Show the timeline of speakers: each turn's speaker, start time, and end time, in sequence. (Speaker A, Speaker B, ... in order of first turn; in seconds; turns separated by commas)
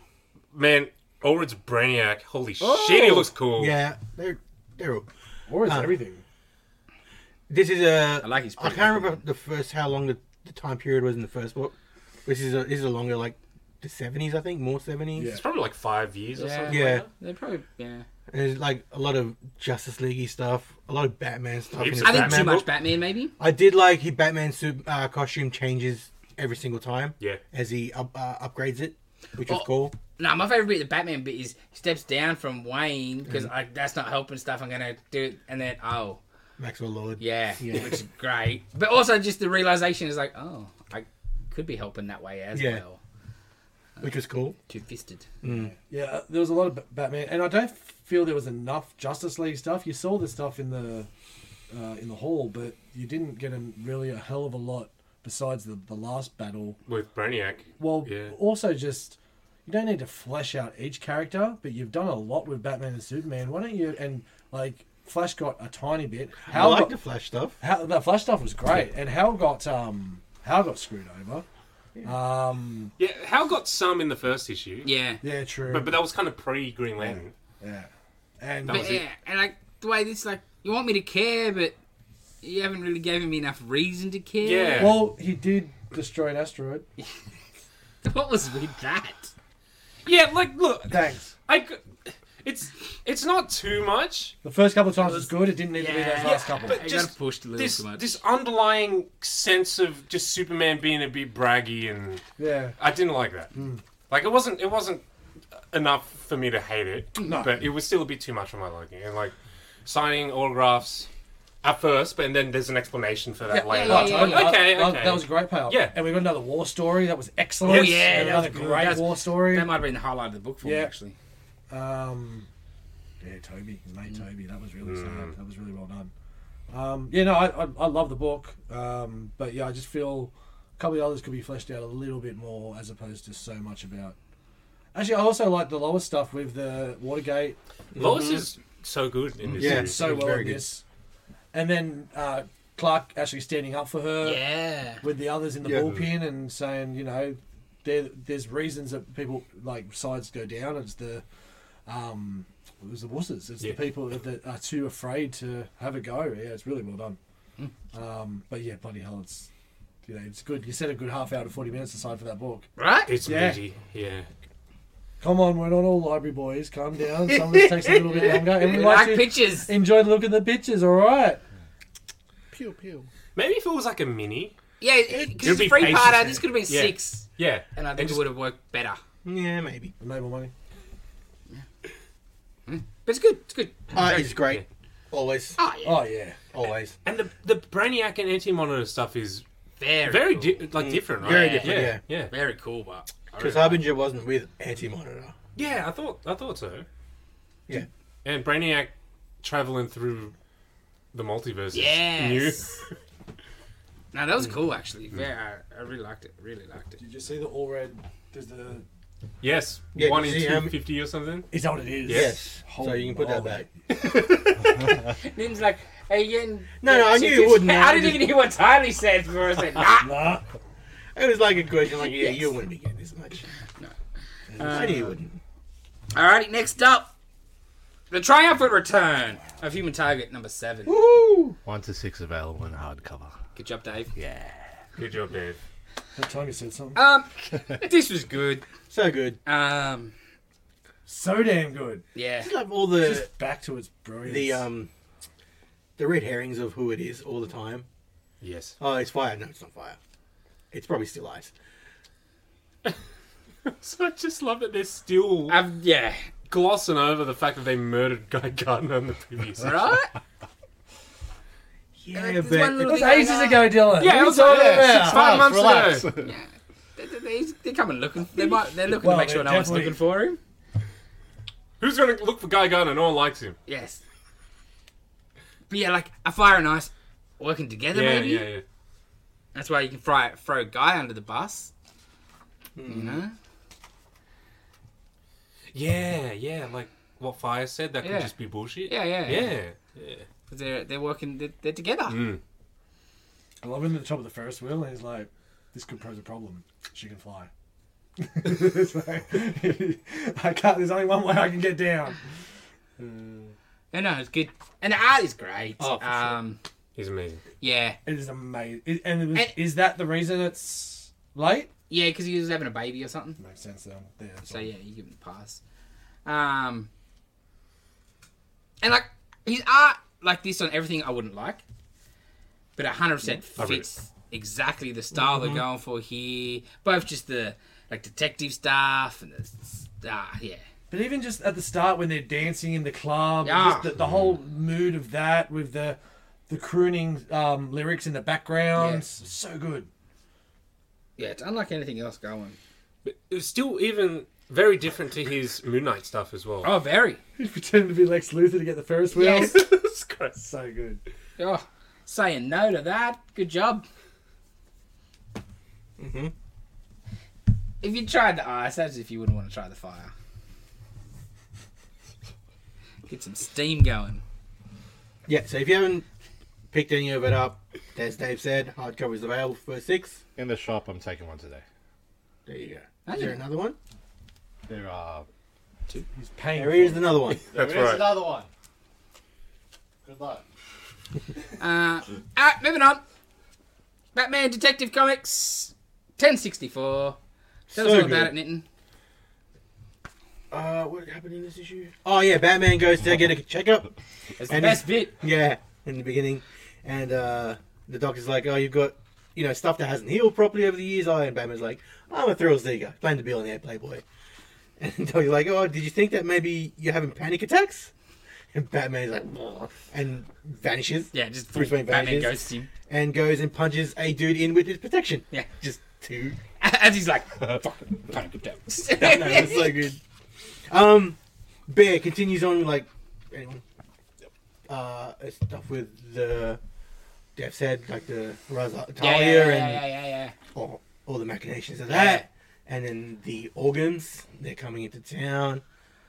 Speaker A: 0.5-3.7, Speaker B: 2.6-3.3, Speaker C: 3.6-5.1, Speaker D: 5.5-6.2, Speaker C: 5.6-5.9, Speaker C: 7.5-11.7, Speaker B: 8.2-9.2, Speaker C: 12.2-15.4, Speaker D: 15.2-15.4, Speaker A: 15.3-17.0, Speaker B: 16.4-18.1, Speaker C: 16.7-17.1, Speaker C: 18.3-22.6, Speaker A: 21.7-22.7, Speaker B: 22.0-23.4, Speaker C: 23.4-29.9, Speaker B: 29.5-36.2, Speaker C: 36.6-38.0, Speaker B: 37.2-43.0, Speaker C: 42.5-42.8, Speaker C: 44.0-44.6, Speaker B: 44.7-45.3, Speaker C: 45.4-45.7, Speaker D: 45.5-51.1, Speaker D: 51.7-56.8, Speaker A: 56.9-58.4, Speaker D: 57.8-66.9, Speaker C: 66.5-67.6, Speaker D: 67.6-71.5, Speaker D: 72.0-72.9, Speaker A: 73.0-74.9, Speaker B: 74.8-75.2, Speaker D: 75.2-76.0, Speaker A: 75.7-77.3, Speaker D: 77.0-79.0, Speaker A: 78.7-79.0, Speaker B: 78.7-81.8, Speaker B: 82.4-85.0, Speaker A: 84.4-85.1, Speaker D: 84.8-86.9, Speaker B: 88.0-89.3, Speaker A: 90.0-94.4, Speaker D: 90.9-91.3, Speaker D: 94.4-96.8, Speaker B: 95.7-98.2, Speaker A: 96.2-102.2, Speaker D: 102.4-102.8, Speaker A: 102.8-103.5, Speaker D: 103.5-103.8, Speaker A: 104.1-105.0, Speaker A: 105.5-109.3, Speaker D: 107.3-107.6, Speaker A: 109.8-111.1, Speaker A: 111.6-116.0, Speaker D: 113.5-119.7, Speaker B: 113.5-114.6, Speaker A: 117.6-119.0, Speaker B: 117.6-121.2, Speaker D: 120.6-120.9, Speaker D: 121.7-122.5, Speaker D: 123.2-126.1, Speaker A: 124.8-125.3, Speaker D: 126.7-134.2, Speaker D: 134.9-137.6, Speaker C: 137.9-138.4, Speaker A: 138.0-140.2, Speaker D: 139.5-140.8, Speaker C: 139.6-140.7, Speaker D: 141.5-144.4, Speaker B: 144.2-145.0, Speaker D: 145.0-151.2, Speaker C: 145.6-145.9, Speaker D: 151.9-157.2, Speaker D: 157.9-159.5, Speaker D: 160.0-162.7, Speaker B: 162.8-163.1, Speaker A: 163.1-164.3, Speaker D: 163.2-163.6, Speaker D: 165.2-171.4, Speaker B: 167.3-169.7, Speaker E: 172.5-173.1, Speaker A: 173.3-174.6, Speaker B: 174.8-179.0, Speaker A: 175.2-178.2, Speaker C: 175.5-176.0, Speaker C: 179.2-179.9, Speaker D: 180.0-180.5, Speaker B: 182.7-184.0, Speaker C: 183.9-185.6, Speaker A: 184.0-184.6, Speaker B: 185.6-186.0, Speaker D: 185.8-186.4, Speaker C: 186.5-186.9, Speaker A: 187.1-189.4, Speaker B: 189.8-190.7, Speaker A: 190.1-192.3, Speaker C: 190.8-192.0, Speaker B: 191.2-193.8, Speaker C: 193.4-195.3, Speaker A: 195.6-196.9, Speaker A: 198.2-200.3, Speaker A: 201.1-202.9, Speaker B: 201.7-202.8, Speaker B: 204.1-207.0, Speaker D: 207.0-208.8, Speaker A: 209.4-211.5, Speaker C: 210.0-210.7, Speaker D: 211.5-213.7, Speaker A: 212.1-212.3, Speaker C: 212.1-213.7, Speaker B: 215.1-220.2, Speaker C: 216.8-218.3, Speaker D: 220.0-220.5, Speaker C: 221.2-223.5, Speaker B: 222.0-222.5, Speaker D: 224.5-225.1, Speaker B: 224.6-225.2, Speaker C: 224.6-225.4, Speaker B: 226.1-227.1, Speaker B: 228.1-230.9, Speaker C: 230.9-231.6, Speaker E: 231.7-233.3, Speaker B: 233.6-234.2, Speaker E: 234.2-234.5, Speaker A: 235.0-235.6, Speaker D: 236.2-237.0, Speaker B: 236.9-238.7, Speaker C: 238.9-239.4, Speaker B: 239.4-240.1, Speaker D: 241.1-242.0, Speaker B: 242.1-242.5, Speaker C: 242.4-243.3, Speaker D: 243.0-244.7, Speaker C: 244.3-244.9, Speaker C: 246.0-247.9, Speaker A: 248.4-248.8, Speaker C: 248.8-250.0, Speaker C: 250.7-251.5, Speaker A: 253.7-255.6, Speaker B: 255.5-256.3, Speaker A: 256.5-259.8, Speaker B: 259.6-260.1, Speaker C: 262.0-263.2, Speaker B: 262.1-270.4, Speaker D: 262.8-265.2, Speaker A: 264.0-266.1, Speaker E: 264.4-266.3, Speaker D: 268.9-270.0, Speaker A: 271.8-273.6, Speaker B: 273.7-274.0, Speaker B: 275.7-278.5, Speaker A: 277.9-278.6, Speaker B: 279.5-281.7, Speaker C: 282.8-283.2, Speaker B: 282.9-283.4, Speaker A: 285.7-290.3, Speaker B: 288.0-288.3, Speaker B: 288.8-289.6, Speaker B: 290.5-292.3, Speaker A: 292.1-292.4, Speaker D: 293.6-297.5, Speaker D: 298.2-302.2, Speaker D: 303.0-303.5, Speaker B: 303.9-306.6, Speaker C: 305.8-306.4, Speaker A: 307.0-307.4, Speaker B: 307.6-308.0, Speaker D: 308.1-311.7, Speaker B: 311.9-313.4, Speaker D: 313.4-314.7, Speaker B: 314.4-315.6, Speaker B: 316.2-316.9, Speaker B: 318.8-321.6, Speaker B: 322.8-330.6, Speaker A: 323.6-323.9, Speaker C: 325.2-325.6, Speaker D: 330.9-339.9, Speaker B: 333.4-333.9, Speaker A: 334.0-334.3, Speaker B: 338.8-339.1, Speaker B: 341.2-342.6, Speaker A: 343.1-346.7, Speaker B: 346.6-347.2, Speaker D: 347.4-349.7, Speaker B: 349.1-349.5, Speaker A: 349.3-350.4, Speaker D: 350.4-351.0, Speaker B: 351.4-353.9, Speaker C: 356.0-356.3, Speaker B: 357.8-360.1, Speaker B: 363.1-364.2, Speaker C: 365.3-366.1, Speaker C: 366.7-370.2, Speaker E: 370.4-371.6, Speaker C: 372.5-373.8, Speaker B: 373.1-373.4, Speaker E: 374.7-375.3, Speaker D: 376.2-377.2, Speaker C: 376.6-377.5, Speaker E: 377.5-378.5, Speaker A: 377.5-378.1, Speaker E: 380.0-380.4, Speaker B: 381.6-383.0, Speaker B: 384.1-387.2, Speaker C: 387.7-388.3, Speaker B: 387.7-388.6, Speaker C: 390.5-393.9, Speaker B: 394.4-395.2, Speaker C: 394.5-404.0, Speaker C: 404.8-407.9, Speaker C: 408.5-416.4, Speaker B: 411.1-412.7, Speaker B: 416.6-419.9, Speaker C: 419.0-420.0, Speaker C: 420.7-421.2, Speaker C: 421.7-423.6, Speaker C: 424.7-426.6, Speaker C: 427.4-429.9, Speaker B: 429.0-430.3, Speaker C: 430.5-435.6, Speaker B: 431.9-432.3